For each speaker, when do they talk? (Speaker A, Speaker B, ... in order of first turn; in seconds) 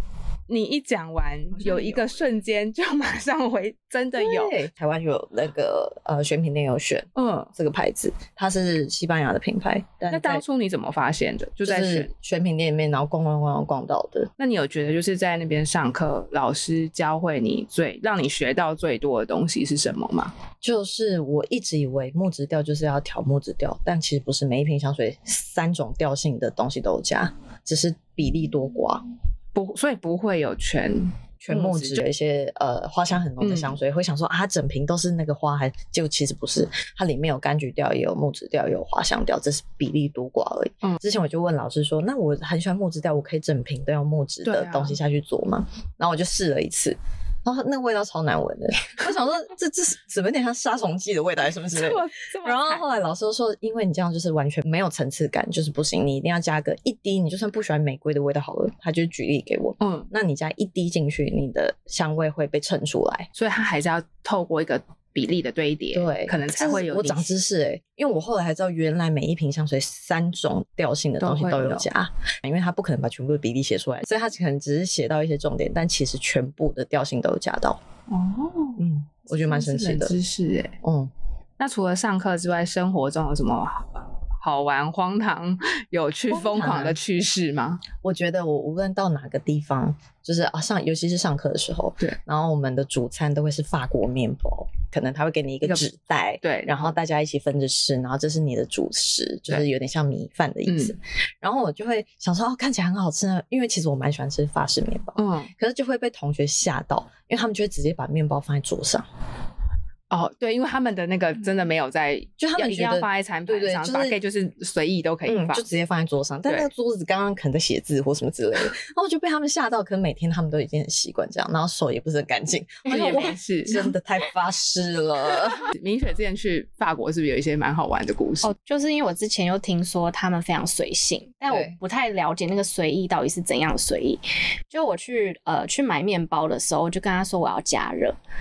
Speaker A: 0.5-4.5, 7.2-7.5, 10.1-12.1, 14.4-20.3, 29.5-32.0, 33.4-33.8, 44.4-45.0, 51.7-52.8, 59.8-60.1, 63.4-67.3, 71.2-71.8, 78.1-78.8, 79.3-80.8, 81.6-87.8, 96.4-97.0, 100.7-100.9, 105.2-105.5, 110.1-115.6, 122.9-123.8, 125.6-128.5
Speaker B: 4.2-10.4, 11.6-14.3, 20.6-29.1, 31.4-63.3, 65.9-77.8, 78.8-80.2, 80.8-81.1, 86.3-87.0, 88.0-109.1, 112.4-114.2, 115.2-125.6, 131.5-131.8
Speaker C: 128.4-138.2